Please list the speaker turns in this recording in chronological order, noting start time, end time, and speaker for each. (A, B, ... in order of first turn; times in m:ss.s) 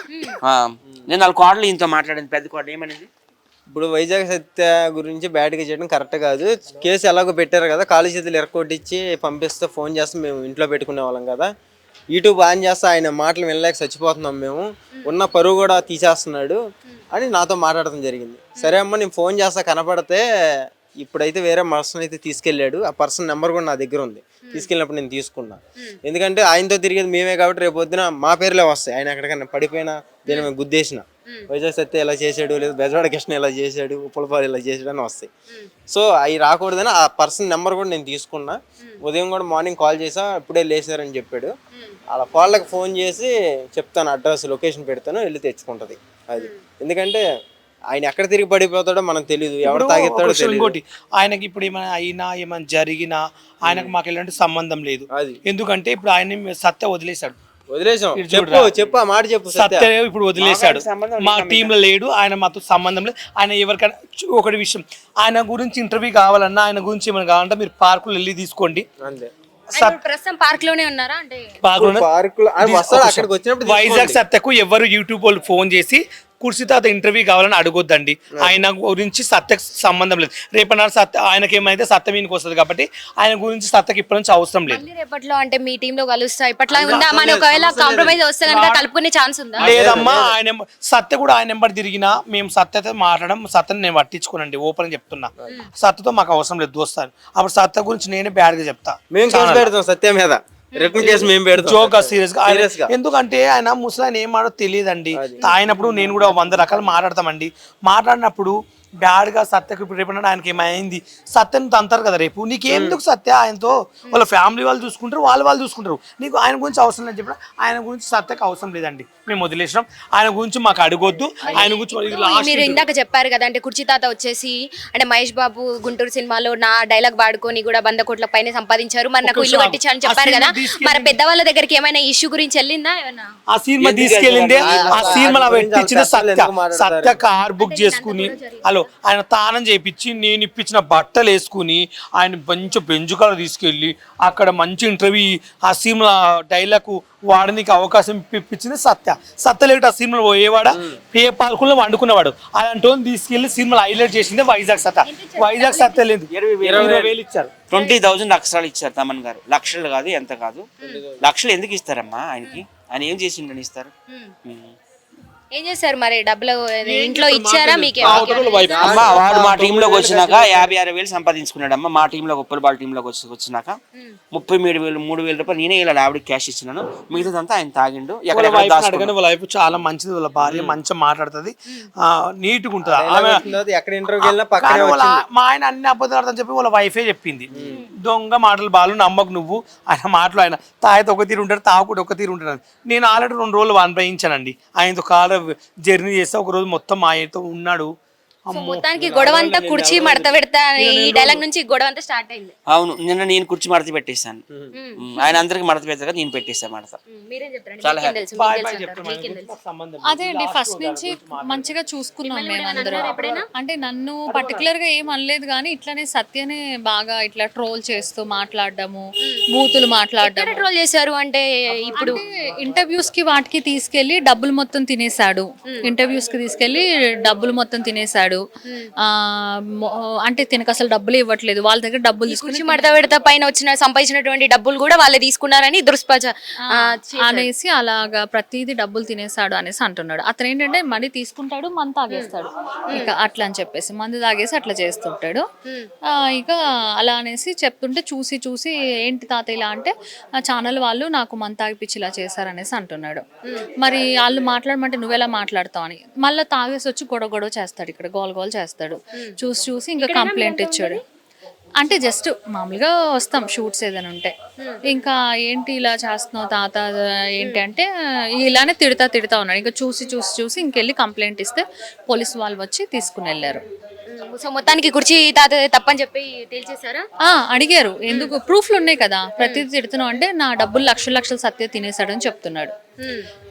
0:00.1-0:00.4 A
0:00.4-0:03.1 B
0:03.7-0:11.5 C
0:12.1-0:16.6 C
0:17.1-0:20.2 C
0:21.0-0:35.3 C
0:35.9-0:41.5 C
0:42.1-0:47.2 C
0:47.9-0:50.8 C
0:49.6-0:57.4 D
0:53.7-0:53.9 C
0:55.1-0:55.4 C
0:57.7-0:59.9 C
0:58.2-0:58.7 D
0:59.5-1:08.9 D
1:00.4-1:01.7 B
1:09.0-1:09.3 C
1:09.8-1:11.6 A
1:11.6-1:12.1 D
1:11.8-1:14.2 C
1:12.6-1:24.8 D
1:24.7-1:29.7 A
1:26.7-1:28.2 C
1:28.5-1:28.8 D
1:29.6-1:30.3 C
1:29.6-1:39.7 D
1:39.1-1:42.9 C
1:40.8-1:41.2 A
1:41.0-2:02.9 D
1:45.2-1:46.9 C
1:52.7-1:53.0 C
2:01.4-2:13.3 A
2:09.2-2:11.2 D
2:13.5-2:37.6 D
2:13.9-2:14.8 B
2:14.0-2:17.2 C
2:17.6-2:18.9 A
2:35.0-2:36.0 A
2:36.3-2:37.1 B
2:36.6-2:37.1 C
2:37.7-2:40.7 B
2:40.8-2:41.3 C
2:41.2-2:43.9 B
2:44.4-2:44.8 B
2:45.5-2:49.2 A
2:46.8-2:49.5 D
2:47.9-2:50.7 C
2:48.9-2:53.8 B
2:54.3-2:59.1 B
2:58.3-3:03.4 D
3:00.5-3:00.8 B
3:02.8-3:05.2 C
3:04.2-3:17.9 D
3:07.6-3:07.8 C
3:18.5-3:18.8 D
3:18.5-3:22.5 A
3:19.0-3:20.3 C
3:20.8-3:21.4 D
3:22.7-3:24.4 B
3:24.7-3:25.4 A
3:25.0-3:27.0 B
3:27.1-3:29.6 A
3:27.8-3:28.2 B
3:28.3-3:31.7 D
3:30.1-3:40.7 E
3:32.2-3:33.5 A
3:33.0-3:33.4 D
3:34.3-3:34.7 D
3:40.2-3:42.2 A
3:42.0-3:48.4 E
3:49.0-3:49.6 E
3:50.3-3:53.0 E
3:52.3-3:57.5 A
3:56.6-4:05.4 E
4:06.3-4:13.2 E
4:13.8-4:21.0 E
4:20.0-4:21.0 A
4:21.8-4:24.3 E
4:24.8-4:27.9 E
4:28.4-4:33.6 E
4:34.1-4:37.0 A
4:37.3-4:42.7 E
4:38.1-4:38.3 A
4:39.4-4:39.6 A
4:43.0-4:43.3 A